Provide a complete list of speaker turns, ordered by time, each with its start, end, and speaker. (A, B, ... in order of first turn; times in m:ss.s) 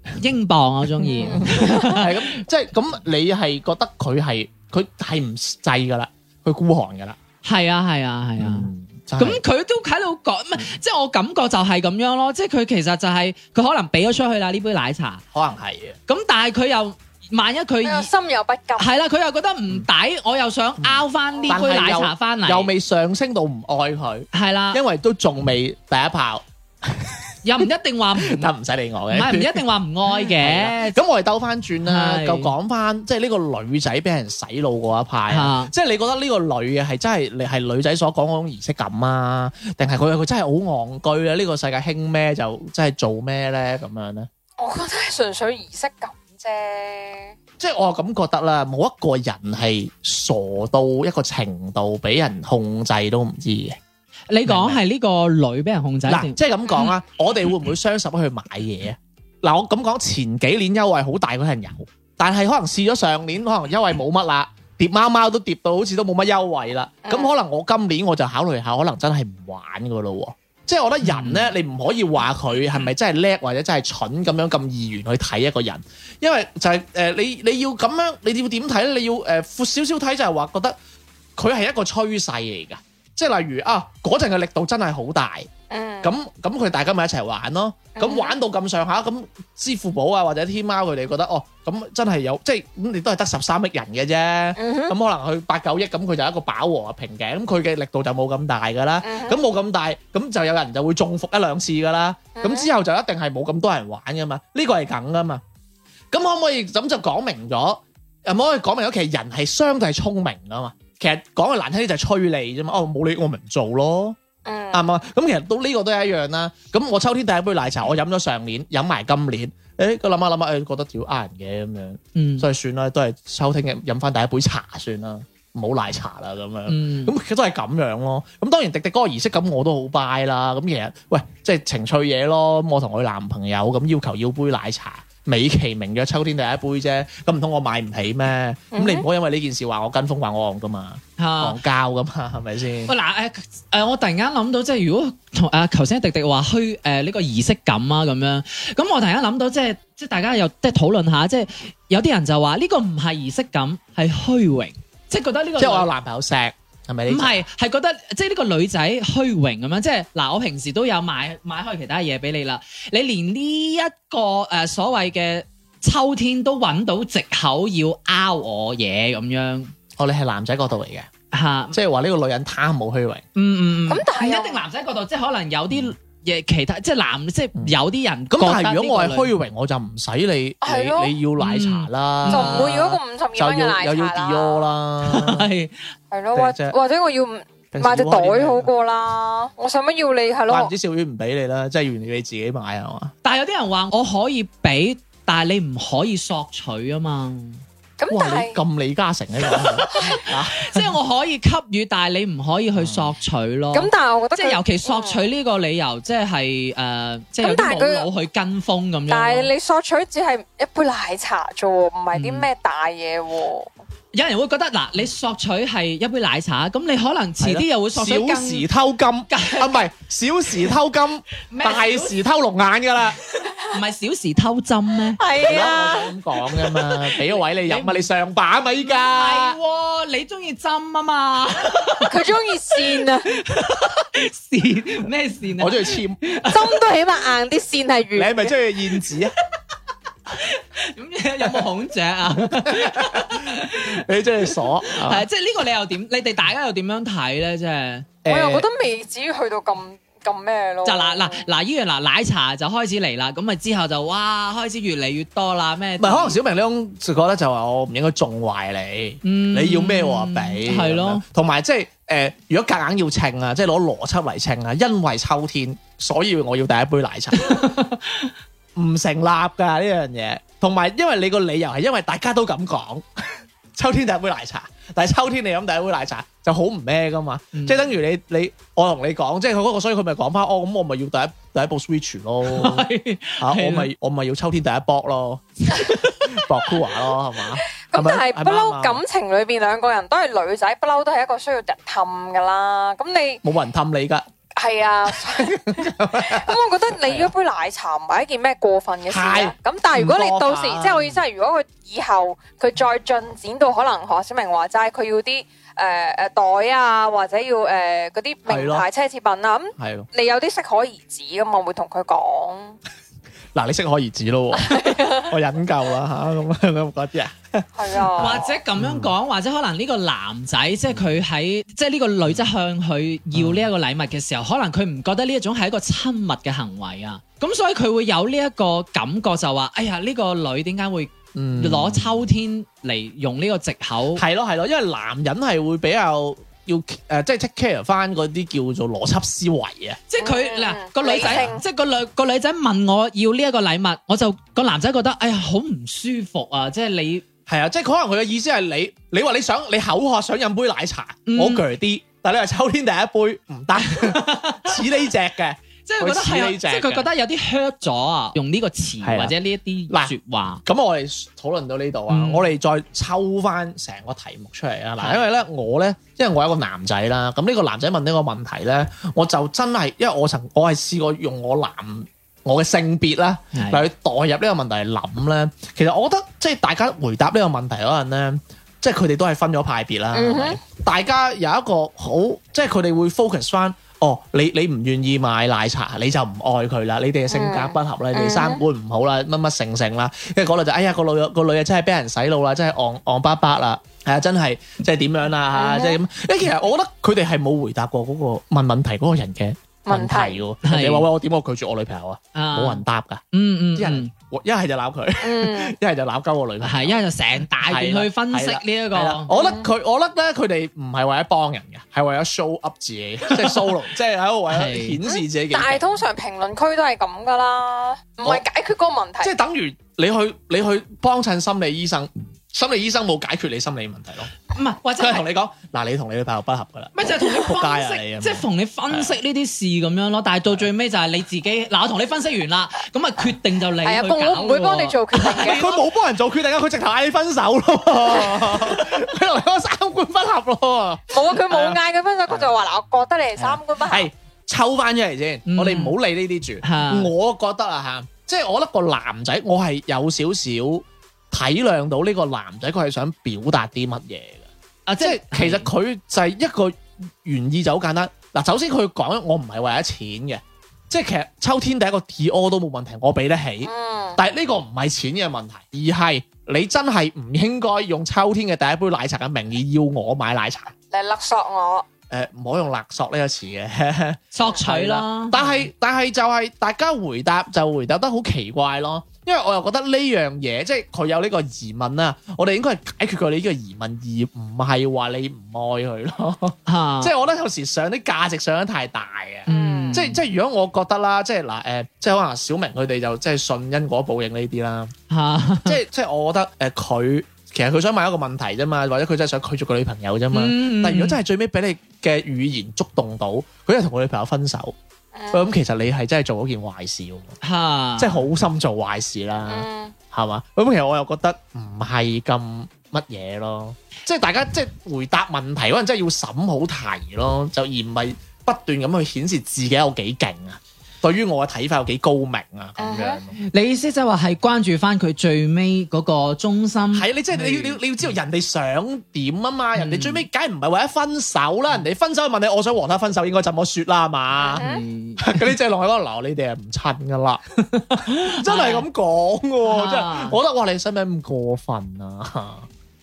0:00.2-0:02.1 A
0:01.0-0:07.2 B
0:07.4-0:15.2 A
0:08.4-0:09.4 B
0:15.3-0:16.0 B
0:16.1-0:18.1 A
0:17.8-0:18.9 C
0:18.8-0:22.7 A
0:20.8-0:27.3 B
0:24.3-0:24.8 A
0:27.4-0:28.5 A
0:28.2-0:44.3 B
0:29.1-0:31.0 A
0:31.8-0:32.5 A
0:35.3-0:35.7 A
0:44.6-0:47.3 C
0:47.6-0:53.8 B
0:54.3-0:56.4 A
0:54.4-0:54.8 B
0:56.1-1:20.8 B
1:07.0-1:07.3 C
1:11.0-1:11.5 A
1:21.4-1:25.5 B
1:25.7-1:26.1 C
1:26.0-1:45.4 B
1:28.0-1:28.4 C
1:34.6-1:35.0 C
1:39.0-1:39.4 C
1:42.4-1:42.7 C
1:46.1-1:54.2 B
1:54.4-1:54.9 C
1:54.7-2:22.9 B
2:02.1-2:02.5 A
2:06.7-2:07.1 A
2:18.7-2:19.0 C
2:21.2-2:21.6 A
2:22.9-2:35.9 A
2:35.6-2:37.4 B
2:37.1-2:49.7 A
2:50.0-2:51.1 B
2:51.3-2:51.8 A
2:51.7-2:53.2 B
2:53.4-2:59.3 A
2:53.9-2:54.6 C
2:58.3-3:05.4 B
3:00.6-3:01.1 C
3:01.4-3:02.8 A
3:02.3-3:04.7 C
3:05.0-3:05.7 A
3:06.1-3:10.7 C
3:06.3-3:06.8 B
3:07.7-3:08.7 B
3:10.5-3:13.1 B
3:13.2-3:17.6 A
3:18.0-3:18.6 C
3:18.1-3:20.9 B
3:19.9-3:20.2 C
3:20.6-3:29.5 A
3:22.8-3:23.1 B
3:23.7-3:25.2 C
3:27.4-3:28.1 C
3:29.1-3:33.7 C
3:32.1-3:32.5 A
3:34.1-3:38.6 A
3:37.4-3:43.2 B
3:39.3-3:39.8 A
3:41.5-3:42.2 A
3:43.5-3:45.2 A
3:45.2-3:46.1 C
3:45.4-3:49.6 B
3:47.1-3:48.0 A
3:48.8-3:52.1 A
3:52.1-3:53.3 C
3:52.7-3:56.8 A
3:55.6-3:56.2 B
3:56.5-3:58.5 C
3:58.1-3:59.3 B
4:00.3-4:04.0 A
4:02.4-4:05.2 B
4:04.9-4:08.1 A
4:08.2-4:08.6 B
4:08.3-4:11.4 C
4:10.8-4:16.4 A
4:16.0-4:27.7 B
4:19.2-4:21.2 A
4:27.4-4:28.3 A
4:28.7-4:42.9 B
4:37.5-4:37.9 A
4:42.4-4:43.9 A
4:43.4-4:49.0 B
4:45.8-4:46.2 A
4:47.9-4:53.4 C
4:53.4-4:54.3 B
4:54.6-5:12.8 C
4:55.1-4:57.3 B
4:59.1-5:01.2 B
5:08.5-5:08.8 B
5:09.8-5:10.1 B
5:13.5-5:19.1 B
5:14.6-5:15.3 C
5:17.7-5:18.4 C
5:18.2-5:34.2 A
5:23.3-5:23.7 B
5:31.3-5:32.2 B
5:34.2-5:40.0 B
5:40.1-5:47.2 A
5:40.2-5:41.6 C
5:41.2-5:41.6 B
5:47.5-5:57.1 B
5:51.3-5:51.6 A
5:53.9-5:54.8 A
5:55.9-6:00.6 A
5:59.0-5:59.3 B
5:59.9-6:43.2 B
6:02.1-6:02.5 A
6:05.0-6:05.2 A
6:13.5-6:13.8 A
6:20.1-6:20.6 C
6:27.3-6:28.6 C
6:35.5-6:36.0 C
6:39.8-6:40.4 C
6:40.6-6:41.1 A
6:42.3-6:44.1 A
6:43.8-6:56.0 B
6:45.2-6:45.7 C
6:46.6-6:49.3 A
6:49.3-6:49.7 C
6:53.3-6:53.6 A
6:54.5-6:55.0 A
6:55.0-6:59.3 C
6:59.2-7:04.3 B
7:04.5-7:05.2 A
7:05.0-7:09.2 B
7:06.9-7:15.6 A
7:13.8-7:15.8 C
7:15.4-7:22.5 B
7:21.1-7:24.1 C
7:23.4-7:34.5 B
7:25.5-7:26.0 A
7:26.6-7:27.1 A
7:34.9-7:35.7 A
7:35.0-7:50.7 B
7:43.6-7:44.2 C
7:50.9-7:51.8 C
7:52.1-8:14.9 B
7:54.3-7:55.6 A
8:06.7-8:07.1 A
8:09.4-8:10.2 A
8:09.5-8:10.0 C
8:15.1-8:15.8 A
8:15.6-8:24.8 B
8:20.3-8:21.2 A
8:25.1-8:25.5 C
8:25.3-8:27.3 B
8:27.4-8:28.2 A
8:28.0-8:43.4 B
8:29.5-8:29.9 C
8:42.8-8:43.2 C
8:43.4-8:47.8 A
8:46.9-8:54.6 B
8:49.8-8:50.2 A
8:54.4-8:54.8 C
8:54.6-8:55.4 A
8:55.2-8:57.4 B
8:57.6-8:58.8 A
8:57.9-9:02.7 B
8:59.6-9:00.4 A